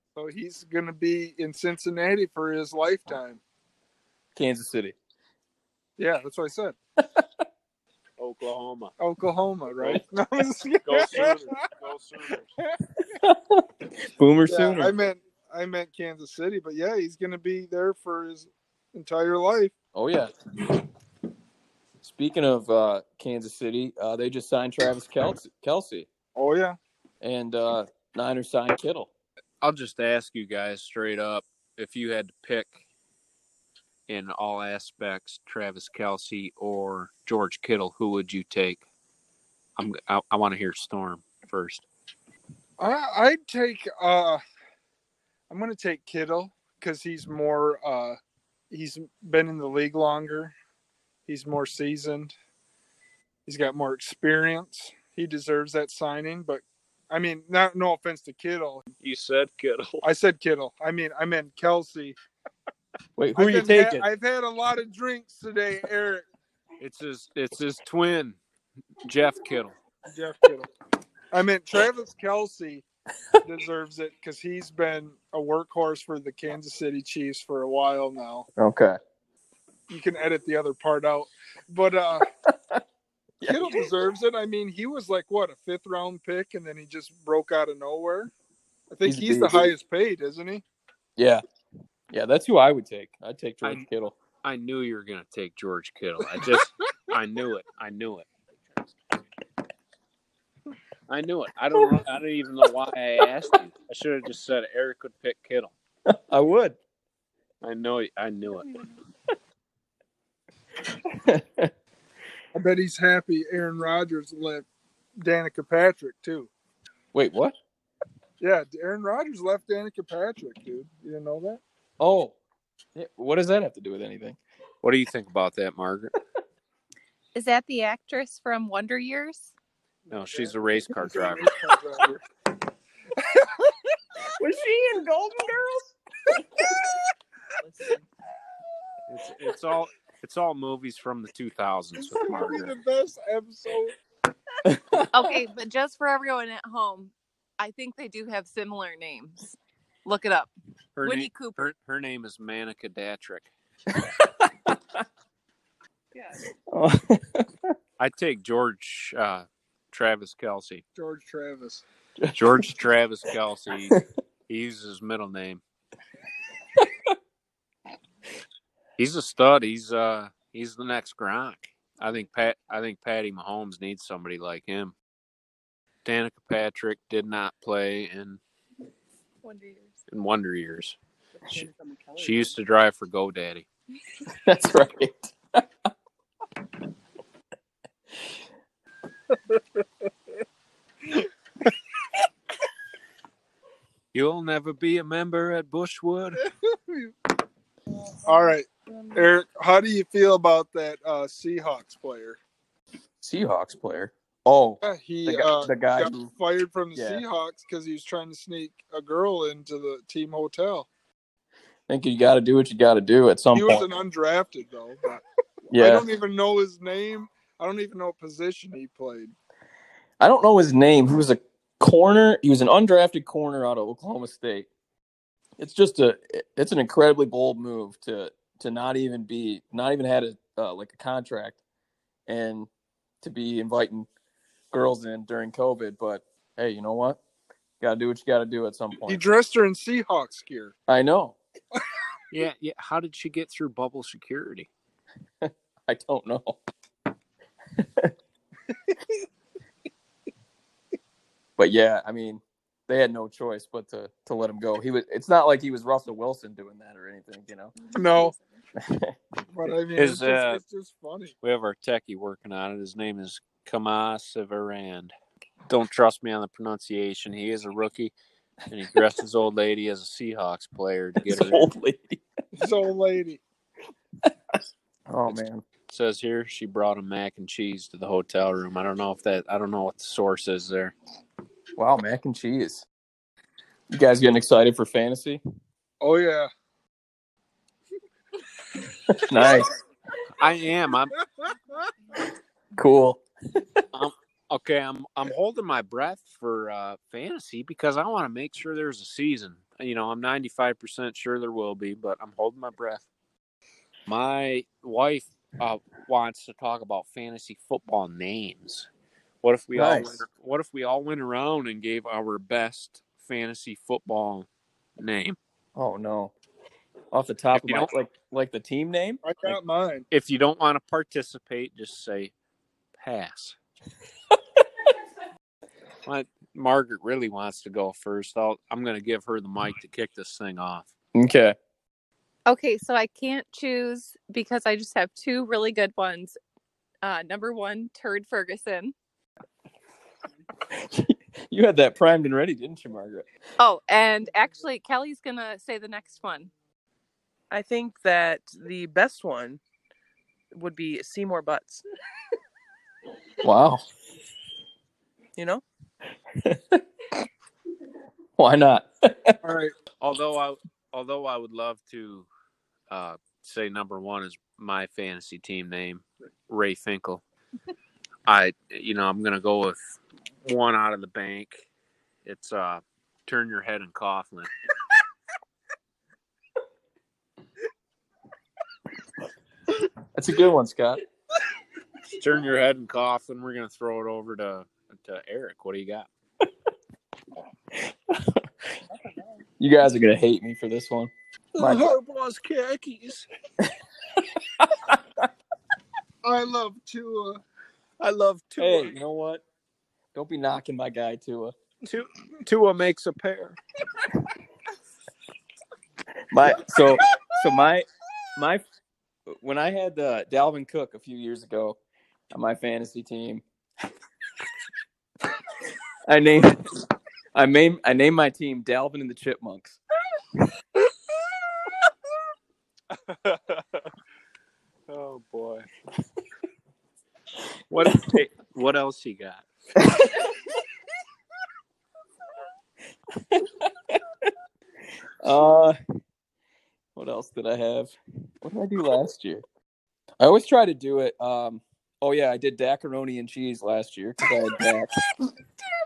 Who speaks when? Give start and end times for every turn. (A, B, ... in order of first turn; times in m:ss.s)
0:00.2-0:03.4 A
0:04.3-0:05.0 B
0:06.0-0:06.8 A
0:08.2-0:08.9 C
0:09.0-0:11.5 A
0:09.8-0:10.0 C
0:10.8-0:12.5 C
0:13.0-0:14.9 B
0:14.5-0:19.7 A
0:19.9-0:20.8 B
0:22.0-0:26.1 B
0:26.4-0:26.8 A
0:27.2-0:29.1 B
0:29.6-0:32.8 C
0:34.1-0:38.8 C
0:39.8-0:41.8 C
0:42.8-0:44.4 A
0:45.5-0:48.2 A
0:48.7-0:50.5 A
0:51.2-0:52.3 A
0:53.4-0:58.8 A
0:59.0-1:00.0 C
1:00.0-1:02.2 A
1:03.2-1:04.0 B
1:03.4-1:06.2 A
1:06.8-1:08.4 C
1:09.0-1:09.7 C
1:10.1-1:10.7 A
1:11.3-1:12.8 A
1:13.4-1:18.5 A
1:18.6-1:19.0 B
1:19.9-1:22.3 A
1:22.4-1:22.8 B
1:23.4-1:23.8 B
1:23.4-1:28.3 A
1:28.9-1:30.6 A
1:29.0-1:29.7 B
1:31.2-1:31.4 B
1:32.1-1:34.2 B
1:34.4-1:38.3 C
1:41.1-1:45.7 C
1:46.1-1:46.8 B
1:47.6-1:48.7 C
1:50.9-1:51.7 B
1:52.5-1:54.6 A
1:55.2-1:56.5 A
1:57.1-1:57.5 B
1:58.4-2:01.6 A
2:02.0-2:02.4 B
2:02.9-2:04.4 B
2:04.8-2:06.1 C
2:07.3-2:09.5 D
2:10.1-2:11.5 C
2:10.1-2:12.2 A
2:13.2-2:13.7 A
2:14.4-2:16.8 B
2:17.6-2:18.0 E
2:19.1-2:22.7 C
2:22.0-2:23.9 A
2:24.6-2:25.3 B
2:25.1-2:30.5 D
2:31.0-2:33.5 C
2:31.0-2:31.6 D
2:33.9-2:35.0 B
2:36.1-2:36.4 E
2:36.7-2:37.7 B
2:38.0-2:40.8 C
2:41.0-2:41.8 A
2:42.2-2:42.8 B
2:42.3-2:45.6 C
2:46.7-2:47.1 B
2:49.0-2:54.9 C
2:56.0-2:58.4 C
2:59.4-3:00.0 D
3:00.1-3:01.0 C
3:01.4-3:02.5 E
3:02.2-3:03.6 C
3:04.3-3:05.7 B
3:14.1-3:16.4 C
3:16.4-3:17.1 A
3:18.2-3:22.4 A
3:23.2-3:26.3 B
3:24.8-3:30.9 A
3:26.9-3:27.2 B
3:31.9-3:33.9 B
3:33.5-3:39.3 A
3:35.7-3:36.1 B
3:40.2-3:44.7 B
3:45.6-3:51.6 B
3:52.3-3:52.7 B
3:53.2-3:54.1 B
3:54.7-3:57.2 B
3:57.8-3:59.2 B
3:59.1-4:00.7 A
4:00.9-4:01.4 B
4:02.3-4:04.7 C
4:05.4-4:06.6 B
4:07.8-4:08.1 B
4:11.6-4:17.7 B
4:17.9-4:18.3 A
4:18.8-4:19.2 B
4:19.5-4:21.3 A
4:19.9-4:20.6 C
4:21.4-4:25.1 C
4:25.7-4:28.1 C
4:28.7-4:31.6 C
4:31.2-4:32.2 B
4:32.6-4:33.4 A
4:35.1-4:35.6 B
4:35.3-4:40.9 C
4:41.8-4:42.8 B
4:43.9-4:45.4 B
4:46.0-4:46.5 A
4:49.0-4:49.7 B
4:50.4-4:51.1 C
4:52.8-4:53.8 B
4:53.9-5:03.0 C
5:04.1-5:08.9 C
5:09.4-5:14.5 C
5:09.7-5:10.2 B
5:15.0-5:15.4 C
5:15.8-5:16.3 B
5:17.1-5:19.2 B
5:17.5-5:17.9 C
5:19.2-5:20.0 A
5:20.1-5:22.3 C
5:23.0-5:23.6 C
5:26.0-5:30.9 C
5:31.1-5:31.6 B
5:32.4-5:36.3 D
5:37.0-5:38.9 D
5:40.7-5:43.2 B
5:43.6-5:46.5 D
5:47.5-5:49.6 E
5:50.5-5:51.8 E
5:53.4-5:53.8 B
5:55.4-5:55.6 E
5:56.4-5:56.8 B
5:58.4-5:59.4 B
5:59.4-5:59.7 A
6:00.0-6:02.3 C
6:02.9-6:07.2 C
6:08.2-6:11.6 C
6:12.2-6:14.5 C
6:20.1-6:21.0 B
6:22.1-6:26.1 C
6:27.7-6:28.8 B
6:29.6-6:31.9 B
6:31.6-6:33.3 C
6:33.6-6:35.3 B
6:36.2-6:37.4 A
6:38.0-6:39.0 C
6:38.6-6:39.4 B
6:40.1-6:41.5 B
6:41.8-6:43.6 C
6:46.3-6:48.6 B
6:49.3-6:51.8 B
6:52.3-6:53.4 B
6:56.0-6:59.8 B
7:02.9-7:03.8 C
7:04.9-7:05.7 C
7:07.7-7:09.4 C
7:09.8-7:10.3 B
7:13.1-7:14.3 B
7:15.2-7:15.8 B
7:16.9-7:19.4 B
7:20.2-7:25.0 B